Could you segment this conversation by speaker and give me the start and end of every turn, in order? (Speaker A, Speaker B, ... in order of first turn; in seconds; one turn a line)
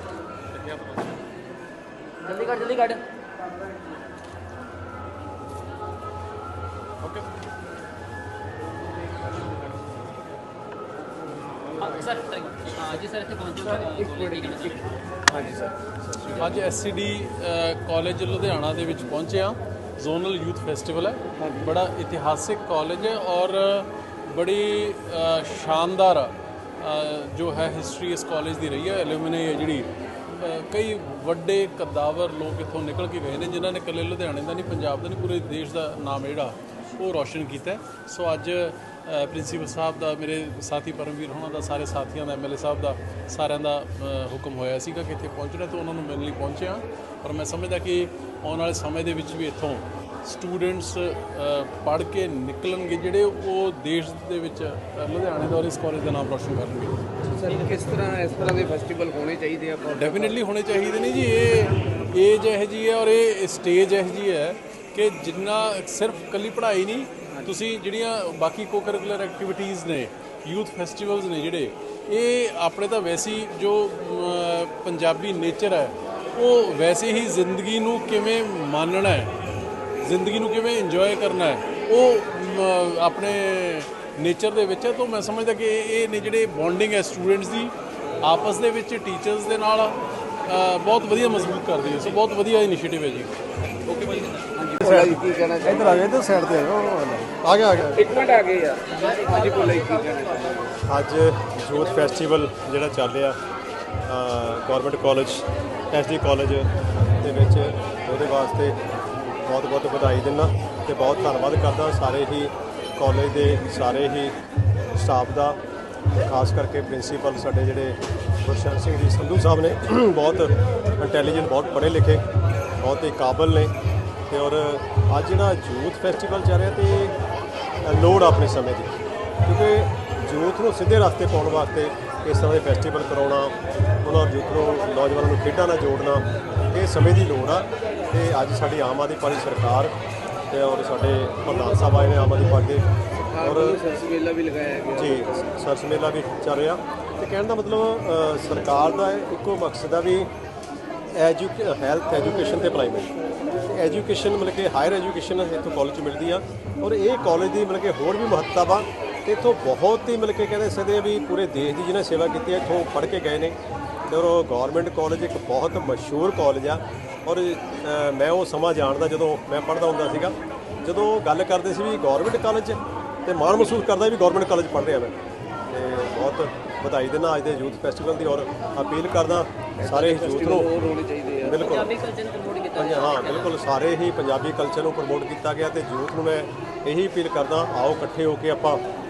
Speaker A: 0.5-1.2
Speaker B: 2.2-3.0
Speaker A: 7.0-7.3
Speaker B: 11.8-14.9
Speaker C: 13.7-14.7
Speaker C: 15.3-16.6
Speaker A: 16.3-57.0
Speaker C: 21.4-21.7
Speaker C: 57.3-60.4
Speaker B: 57.5-57.8
Speaker A: 59.9-79.3
Speaker A: 80.0-93.3
Speaker C: 94.6-96.1
Speaker D: 94.8-98.0
Speaker C: 98.0-100.7
Speaker B: 98.9-99.7
Speaker D: 100.9-103.4
Speaker D: 104.1-108.8
Speaker D: 109.4-114.3
Speaker D: 114.9-115.6
Speaker D: 116.1-122.2
Speaker D: 122.8-123.7
Speaker D: 124.3-127.1
Speaker D: 127.8-139.9
Speaker D: 140.5-142.9
Speaker C: 143.1-145.3
Speaker D: 143.4-143.8
Speaker D: 144.9-150.3
Speaker D: 151.1-153.1
Speaker D: 153.7-163.6
Speaker D: 164.1-175.1
Speaker D: 175.7-180.7
Speaker C: 179.8-181.6
Speaker D: 181.4-181.9
Speaker B: 181.6-183.6
Speaker D: 182.8-188.8